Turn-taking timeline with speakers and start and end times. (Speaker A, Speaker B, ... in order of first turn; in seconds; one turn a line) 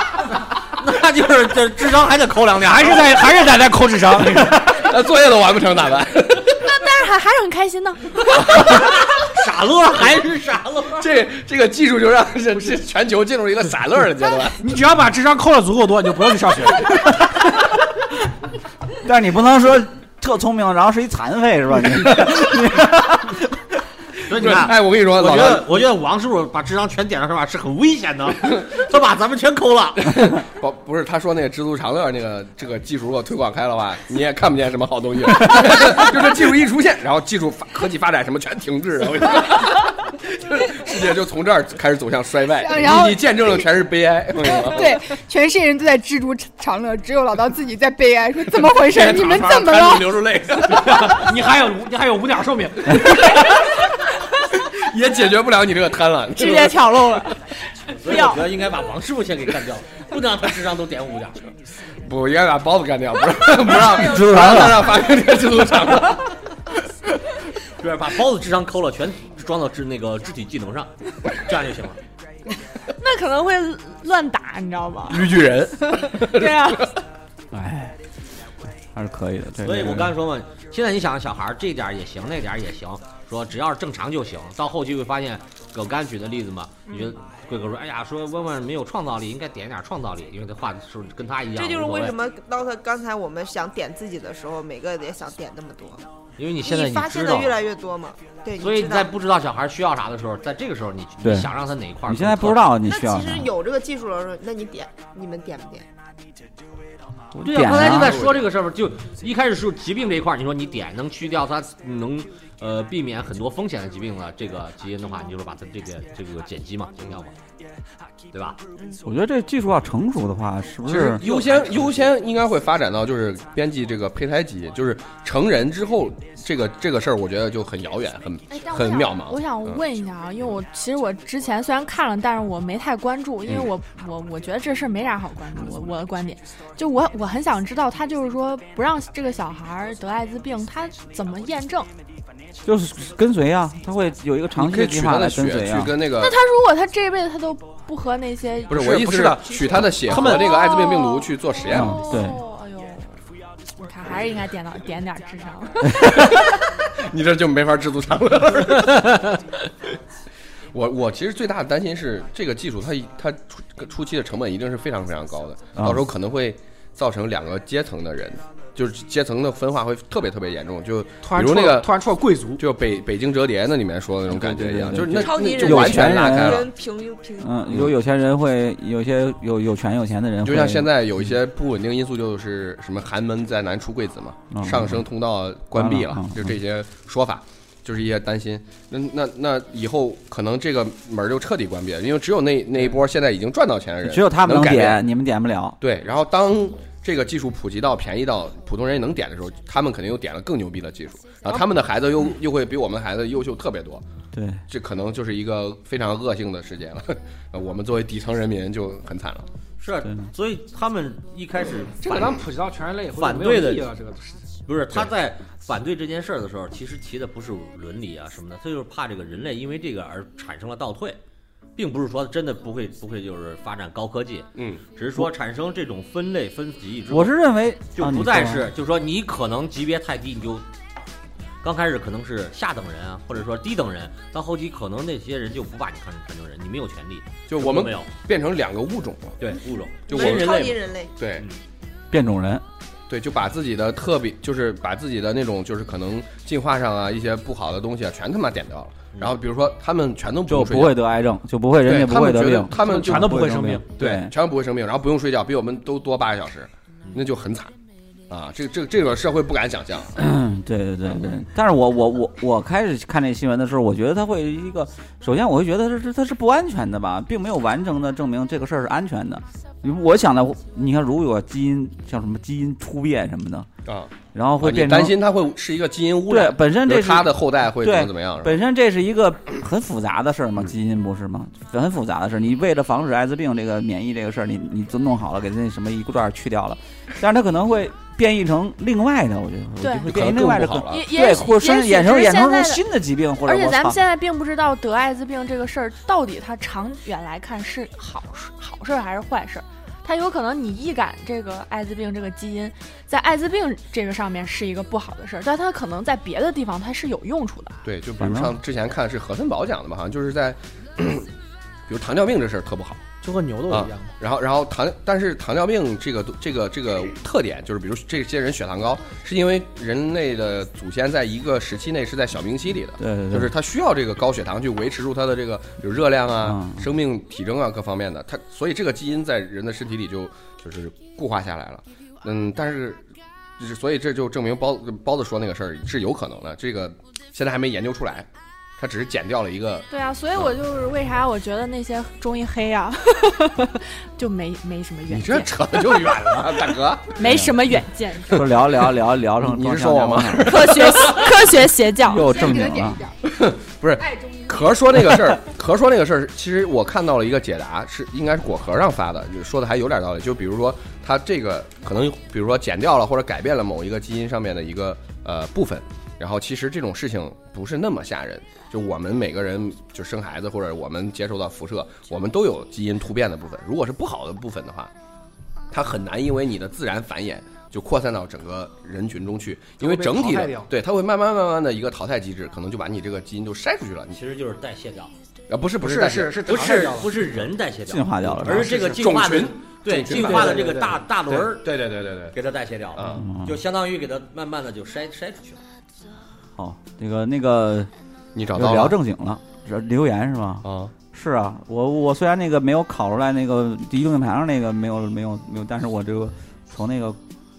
Speaker A: 0.6-3.3
Speaker B: 2.6-4.8
Speaker C: 4.5-6.6
Speaker D: 6.5-8.5
Speaker A: 8.3-11.1
Speaker C: 10.9-14.6
Speaker B: 14.6-16.9
Speaker E: 19.0-23.7
Speaker A: 24.3-30.4
Speaker C: 24.3-25.8
Speaker C: 30.1-45.0
Speaker F: 42.5-43.4
Speaker F: 44.5-50.3
Speaker C: 48.6-51.3
Speaker B: 50.6-53.4
Speaker C: 53.0-53.9
Speaker C: 54.6-56.8
Speaker D: 56.3-58.4
Speaker A: 57.9-61.5
Speaker C: 62.0-66.3
Speaker E: 63.7-64.9
Speaker A: 67.7-72.0
Speaker D: 72.9-76.9
Speaker C: 75.1-76.8
Speaker E: 77.5-77.9
Speaker E: 78.9-80.2
Speaker A: 79.6-92.1
Speaker G: 91.5-96.0
Speaker A: 96.4-97.6
Speaker G: 96.6-99.1
Speaker A: 98.6-102.8
Speaker E: 101.2-101.5
Speaker E: 102.0-103.5
Speaker G: 102.8-105.9
Speaker E: 107.3-108.2
Speaker A: 107.4-117.3
Speaker C: 108.2-108.5
Speaker A: 118.3-118.6
Speaker E: 119.0-121.2
Speaker C: 120.9-129.8
Speaker A: 121.2-122.1
Speaker D: 128.5-141.9
Speaker E: 142.6-145.9
Speaker C: 144.6-146.3
Speaker D: 146.2-149.0
Speaker C: 148.7-152.0
Speaker B: 148.7-150.5
Speaker D: 150.1-153.2
Speaker E: 151.7-152.4
Speaker D: 153.8-156.4
Speaker C: 156.2-159.4
Speaker C: 160.7-171.9
Speaker E: 165.8-166.1
Speaker B: 171.2-172.6
Speaker C: 172.6-176.7
Speaker E: 174.3-176.7
Speaker G: 175.2-177.7
Speaker E: 177.4-181.3
Speaker C: 180.4-195.0
Speaker E: 184.5-185.0
Speaker E: 185.7-186.5
Speaker E: 194.0-195.8
Speaker C: 195.8-204.0
Speaker E: 204.3-204.6
Speaker C: 204.7-209.5
Speaker A: 209.8-212.3
Speaker B: 212.0-214.5
Speaker A: 213.1-213.9
Speaker A: 214.6-221.2
Speaker A: 221.8-227.3
Speaker C: 224.6-224.8
Speaker E: 227.1-228.7
Speaker A: 227.9-230.7
Speaker A: 231.6-238.1
Speaker C: 237.5-239.5
Speaker A: 239.4-240.8
Speaker G: 240.1-241.1
Speaker C: 240.1-241.4
Speaker E: 242.1-242.6
Speaker C: 243.1-251.0
Speaker E: 250.5-254.3
Speaker C: 251.8-257.7
Speaker B: 252.7-253.9
Speaker C: 258.3-260.2
Speaker E: 260.1-273.7
Speaker C: 273.9-278.6
Speaker E: 274.3-275.2
Speaker E: 276.3-294.0
Speaker D: 289.8-290.1
Speaker C: 290.1-291.0
Speaker D: 290.9-292.8
Speaker D: 293.4-307.8
Speaker C: 307.8-311.3
Speaker E: 308.2-308.6
Speaker C: 311.9-313.0
Speaker B: 313.2-314.1
Speaker C: 313.7-333.0
Speaker E: 323.0-323.5
Speaker E: 326.4-326.9
Speaker C: 333.6-338.3
Speaker C: 338.8-340.5
Speaker D: 339.9-345.8
Speaker C: 345.1-347.2
Speaker D: 347.1-348.5
Speaker E: 347.2-347.7
Speaker E: 348.3-350.7
Speaker C: 348.3-351.5
Speaker D: 350.4-352.3
Speaker E: 352.0-353.0
Speaker F: 352.1-353.2
Speaker C: 353.2-374.9
Speaker C: 375.7-384.2
Speaker B: 379.8-380.7
Speaker A: 384.1-385.1
Speaker C: 385.5-386.9
Speaker B: 385.8-387.5
Speaker A: 386.4-391.8
Speaker E: 387.9-388.7
Speaker B: 388.4-389.0
Speaker C: 388.6-390.7
Speaker B: 390.1-391.4
Speaker C: 391.5-392.3
Speaker A: 392.3-395.6
Speaker C: 392.9-393.2
Speaker E: 393.2-393.6
Speaker E: 396.5-397.9
Speaker C: 398.3-399.0
Speaker E: 398.5-407.2
Speaker C: 400.6-400.9